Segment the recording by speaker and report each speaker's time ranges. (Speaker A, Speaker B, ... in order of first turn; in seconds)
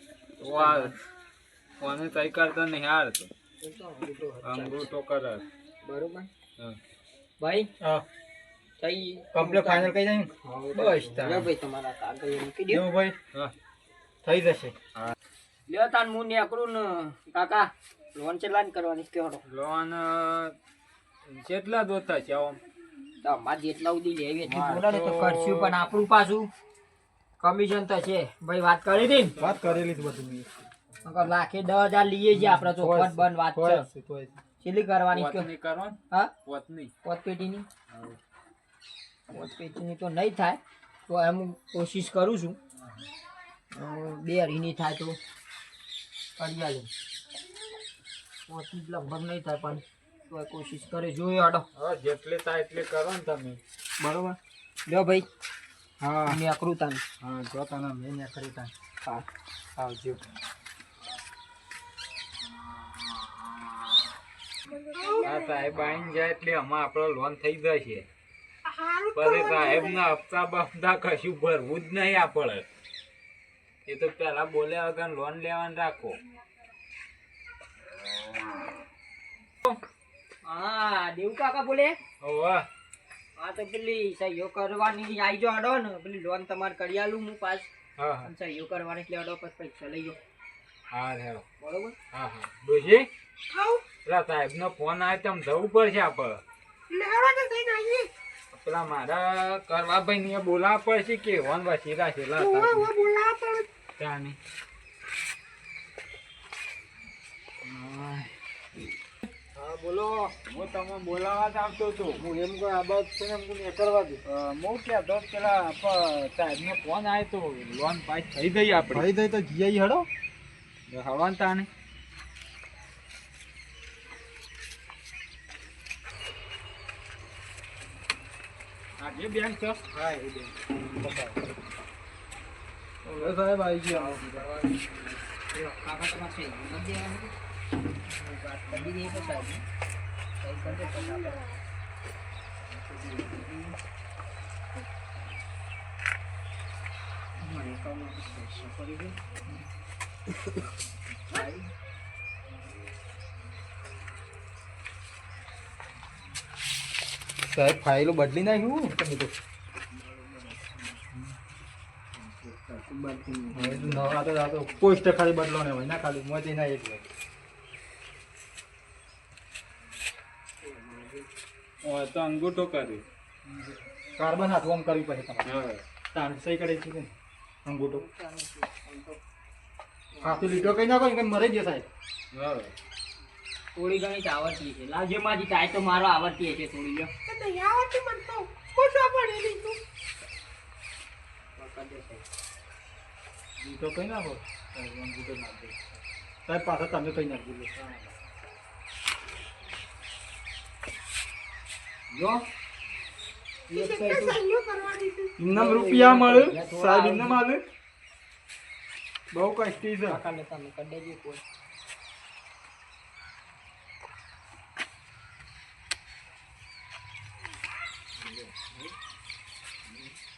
Speaker A: 0.4-0.9, 1.8-3.3, 4.4-5.4, 10.4-11.5, 19.4-20.6, 21.2-22.6, 24.4-25.8, 29.2-29.9, 35.1-36.9, 37.9-38.2, 51.7-53.6, 65.2-68.1, 69.1-72.7, 73.8-76.2, 82.2-82.7, 88.0-88.3, 90.9-91.4, 92.1-93.1, 94.0-96.4, 98.5-102.9, 104.0-104.4, 107.7-108.2, 110.4-112.2, 114.2-119.1, 120.9-121.7, 129.0-129.8, 171.8-173.0, 175.4-175.8, 182.3-182.7
Speaker B: 0.4-0.9, 3.6-4.9, 5.8-6.3, 7.4-7.7, 8.8-9.9, 10.7-12.8, 15.7-19.4, 23.2-26.5, 27.4-29.3, 31.0-33.9, 34.6-35.5, 37.0-37.7, 39.3-42.6, 43.7-45.2, 46.4-46.9, 48.5-51.7, 54.0-55.3, 56.2-57.0, 80.4-82.0, 83.3-87.7, 88.2-90.2, 91.6-92.0, 133.9-137.3, 138.1-139.6, 140.4-141.4, 142.8-143.8, 147.4-149.2, 151.2-151.7, 159.9-160.8, 162.4-164.1, 170.6-171.3, 177.9-179.2, 180.1-180.8, 183.7-187.1, 191.6-192.2, 202.1-202.4, 203.7-204.4, 205.5-207.4, 210.0-211.4, 218.3-218.9
Speaker C: 7.8-8.0, 9.3-10.3, 12.8-13.1, 14.2-14.7, 29.4-30.5, 32.3-34.4, 56.0-56.4, 57.2-58.7, 59.8-60.2, 109.5-110.3, 112.2-114.2, 118.9-120.1, 129.9-131.4, 133.0-134.2, 157.4-159.3, 163.5-167.1, 173.5-175.5, 176.1-177.1, 177.6-178.0, 180.2-181.9, 193.6-195.8, 196.4-198.0, 205.4-207.6, 209.3-210.2
Speaker D: 64.9-65.4, 68.6-70.0, 93.5-93.8, 96.9-98.1, 102.4-103.7, 187.3-189.8, 203.7-205.3